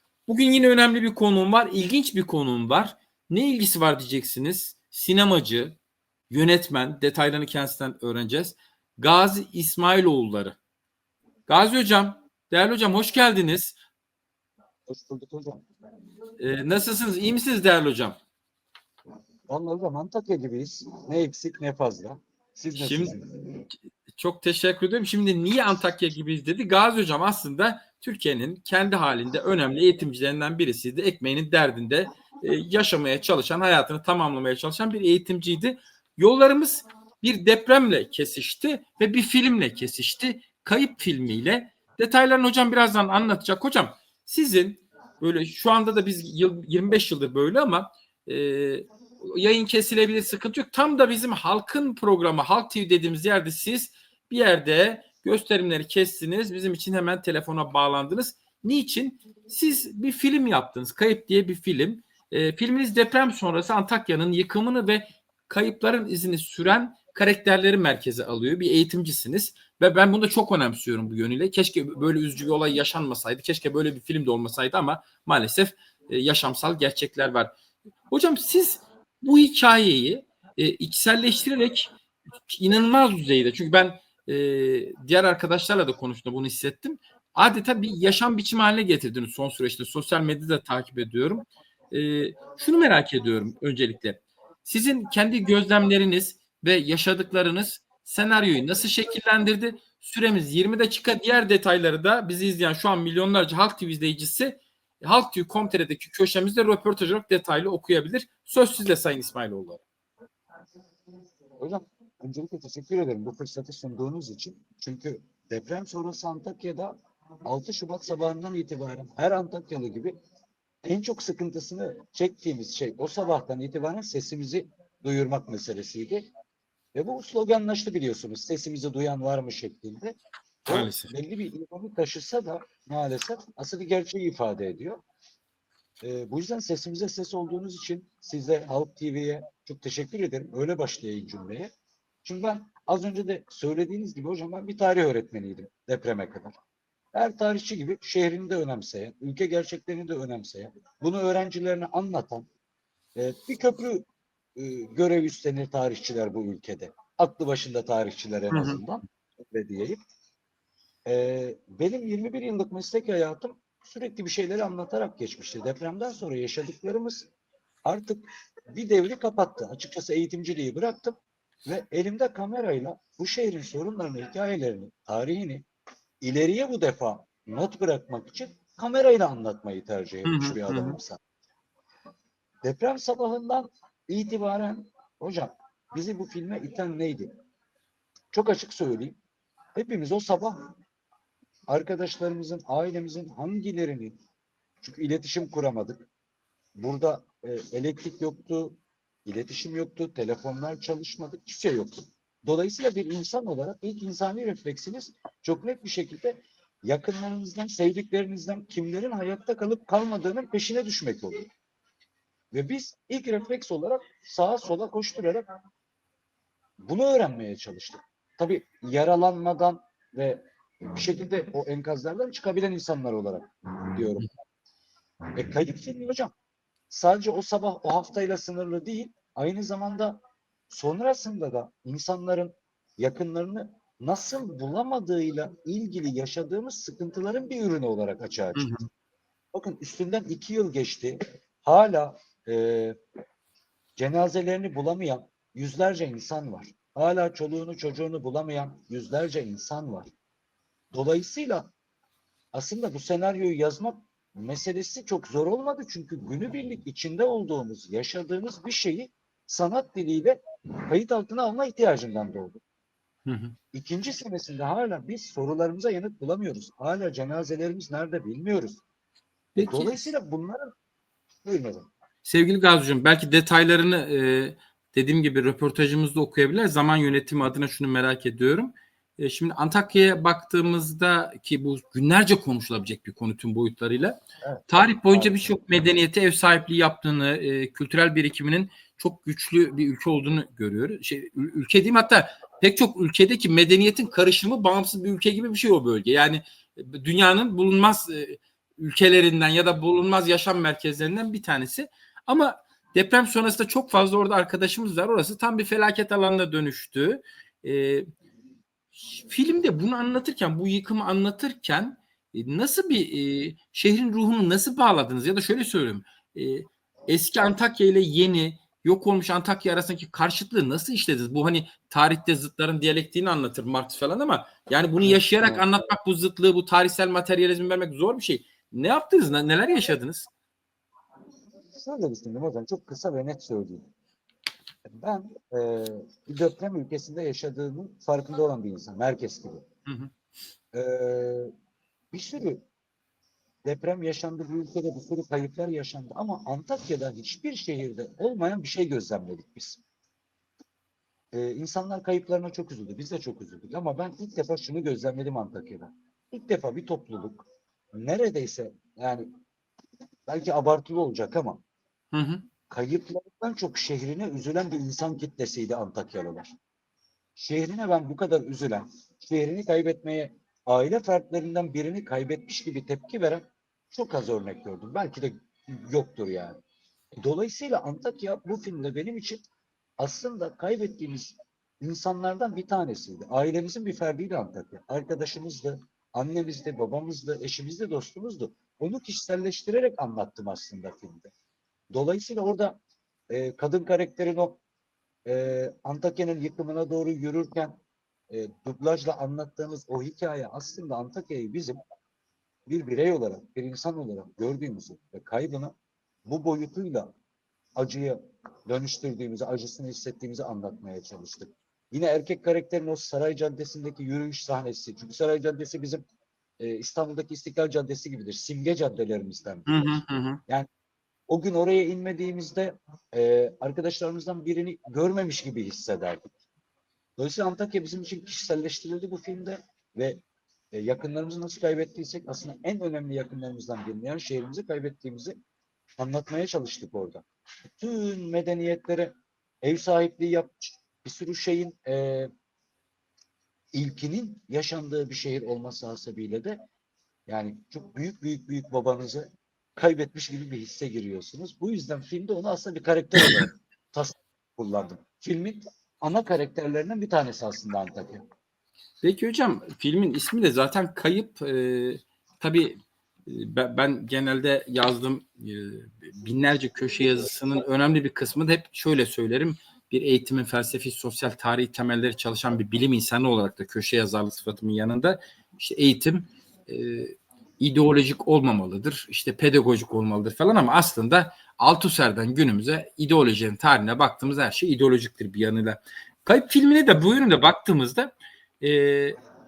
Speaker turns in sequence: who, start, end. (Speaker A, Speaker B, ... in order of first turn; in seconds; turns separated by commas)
Speaker A: 0.3-5.8, Speaker A: 6.3-10.6, Speaker A: 11.5-13.8, Speaker B: 14.9-15.6, Speaker A: 16.4-18.2, Speaker B: 19.5-23.3, Speaker A: 22.7-23.1, Speaker A: 24.1-77.5, Speaker A: 78.1-81.9, Speaker A: 82.5-109.8, Speaker B: 111.6-116.9, Speaker B: 117.5-120.1, Speaker B: 120.8-126.2, Speaker B: 126.9-130.1, Speaker B: 130.7-135.0, Speaker A: 130.7-131.1, Speaker B: 136.0-141.7, Speaker B: 142.2-146.5, Speaker B: 147.1-152.4, Speaker B: 153.2-154.0, Speaker B: 154.6-160.0, Speaker A: 158.5-158.8, Speaker B: 161.1-167.3, Speaker B: 167.8-175.7, Speaker B: 176.2-181.2, Speaker A: 180.2-180.9, Speaker B: 182.6-187.3, Speaker B: 188.3-189.2, Speaker B: 189.8-190.6, Speaker B: 191.7-194.2, Speaker B: 194.8-196.1, Speaker B: 196.8-211.4, Speaker B: 212.5-215.4, Speaker B: 216.8-224.3, Speaker B: 225.3-226.3, Speaker B: 226.9-238.8, Speaker A: 238.5-238.8, Speaker B: 239.5-242.9, Speaker B: 244.0-250.1, Speaker B: 250.9-251.7, Speaker B: 252.5-262.6, Speaker A: 263.2-263.5, Speaker B: 263.7-268.8, Speaker A: 269.5-270.0, Speaker B: 269.6-270.6, Speaker B: 271.4-271.9, Speaker A: 272.2-284.2, Speaker B: 284.4-285.5, Speaker A: 284.7-308.1, Speaker A: 308.9-330.3, Speaker B: 325.0-325.6, Speaker B: 331.7-333.9, Speaker B: 334.9-339.6, Speaker B: 340.7-341.5, Speaker B: 342.1-342.6, Speaker B: 343.6-349.8, Speaker B: 351.3-357.4, Speaker B: 358.0-359.3, Speaker B: 360.3-361.6, Speaker A: 362.1-362.4, Speaker B: 362.7-366.5, Speaker B: 367.4-376.6, Speaker B: 377.2-379.4, Speaker B: 380.0-391.3, Speaker B: 391.9-392.8, Speaker B: 393.3-394.6, Speaker B: 395.2-397.8, Speaker B: 398.3-401.8, Speaker B: 402.7-405.7, Speaker B: 406.2-407.1, Speaker B: 407.8-416.0, Speaker B: 416.6-419.8, Speaker A: 419.6-420.4, Speaker B: 421.3-426.3, Speaker B: 427.2-430.2, Speaker B: 430.7-435.3, Speaker B: 436.0-437.2, Speaker B: 437.8-439.1, Speaker B: 439.6-442.3, Speaker B: 443.7-446.6, Speaker B: 447.3-449.2, Speaker B: 449.8-458.2, Speaker A: 459.0-489.2